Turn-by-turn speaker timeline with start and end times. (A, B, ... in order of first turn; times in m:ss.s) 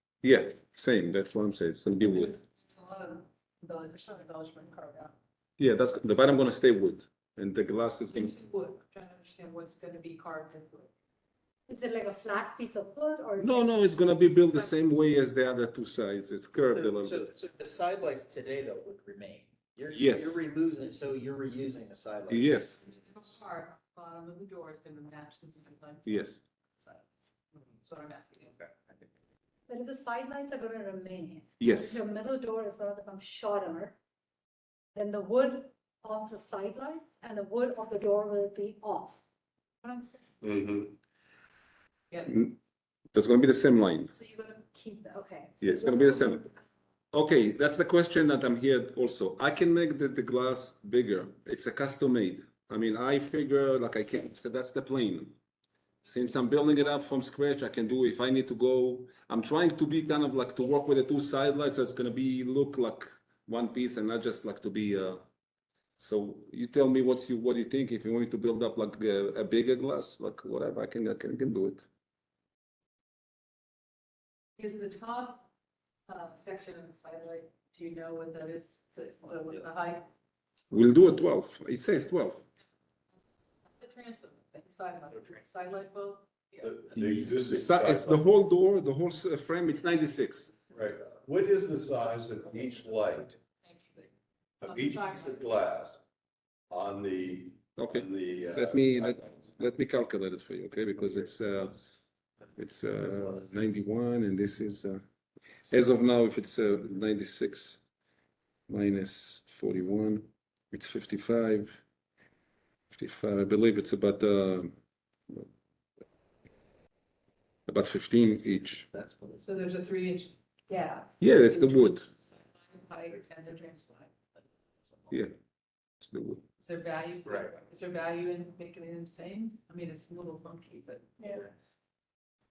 0:00.2-0:02.4 A
0:02.0-0:05.1 B
0:05.6-0:08.3 A
0:08.1-0:10.9 B
0:11.7-0:13.9 C
0:13.4-0:17.3 A
0:16.7-0:22.6 D
0:19.9-0:20.4 A
0:22.3-0:22.8 A
0:22.8-0:28.6 B
0:26.1-0:26.4 A
0:29.7-0:34.0 C
0:31.6-0:32.0 A
0:35.0-0:39.2 C
0:39.8-0:40.3 C
0:40.4-0:40.9 E
0:42.3-0:42.6 A
0:43.1-0:44.1 A
0:44.1-0:46.6 C
0:45.6-0:46.5 A
0:47.1-0:55.4 A
0:56.0-1:05.2 A
1:06.0-1:11.9 A
1:14.6-1:15.5 B
1:16.1-1:20.1 B
1:20.7-1:22.5 A
1:23.8-1:26.7 B
1:26.6-1:28.2 E
1:26.9-1:30.5 A
1:30.7-1:33.4 E
1:33.6-1:34.1 B
1:34.6-1:36.0 E
1:34.6-1:35.5 B
1:36.7-1:39.5 E
1:37.8-1:41.8 A
1:42.6-1:45.0 A
1:45.7-1:47.8 A
1:48.7-1:51.8 A
1:52.9-1:54.7 A
1:57.7-1:58.9 A
1:58.3-1:59.5 D
1:59.4-2:04.1 B
2:01.2-2:02.1 A
2:06.0-2:06.4 A
2:06.6-2:11.4 B
2:07.3-2:07.5 D